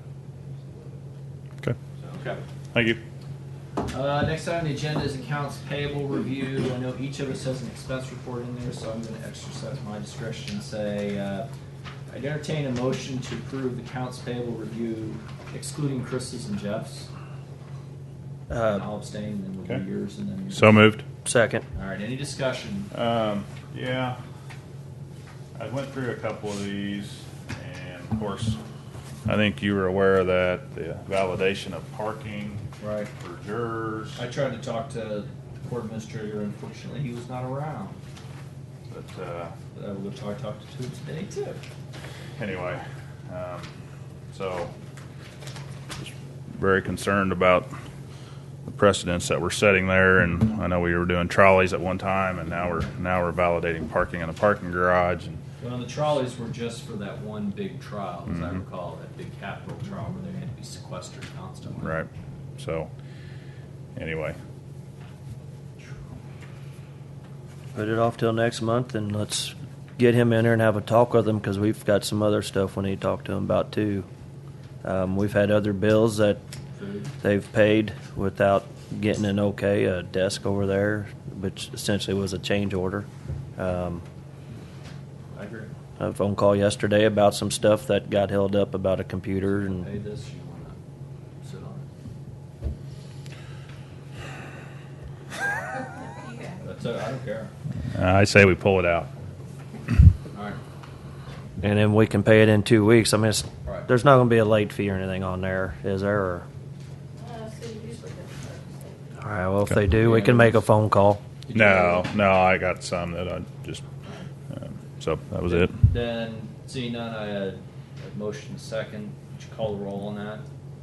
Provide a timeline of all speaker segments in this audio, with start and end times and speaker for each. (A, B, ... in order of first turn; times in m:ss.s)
0:02.0-0:02.4 A
0:02.7-0:03.0 B
0:03.9-0:11.5 A
0:12.1-0:17.1 A
0:18.5-0:18.8 C
0:18.7-0:20.7 A
0:20.5-0:21.0 B
0:21.2-0:21.6 C
0:21.7-0:22.9 A
0:22.9-0:24.2 B
0:25.6-0:28.6 B
0:29.2-0:32.6 B
0:32.8-0:33.1 A
0:33.2-0:34.2 B
0:34.2-0:38.0 A
0:38.9-0:39.5 B
0:39.7-0:41.6 A
0:42.4-0:43.7 B
0:44.3-0:44.7 B
0:46.0-0:47.7 B
0:48.6-0:55.4 B
0:55.6-1:02.0 A
1:01.8-1:02.9 B
1:04.0-1:04.4 B
1:07.7-1:14.1 C
1:14.8-1:16.4 C
1:16.7-1:17.1 A
1:17.2-1:24.0 C
1:25.3-1:25.7 A
1:26.0-1:29.9 C
1:29.4-1:30.8 A
1:31.4-1:31.9 A
1:36.6-1:37.5 A
1:37.9-1:39.1 B
1:40.3-1:40.6 A
1:41.6-1:46.4 C
1:43.6-1:43.9 A
1:47.2-1:49.3 D
1:49.2-1:51.2 C
1:49.9-1:50.6 A
1:51.4-1:52.1 A
1:51.5-1:53.9 B
1:54.5-1:55.8 B
1:55.4-2:00.4 A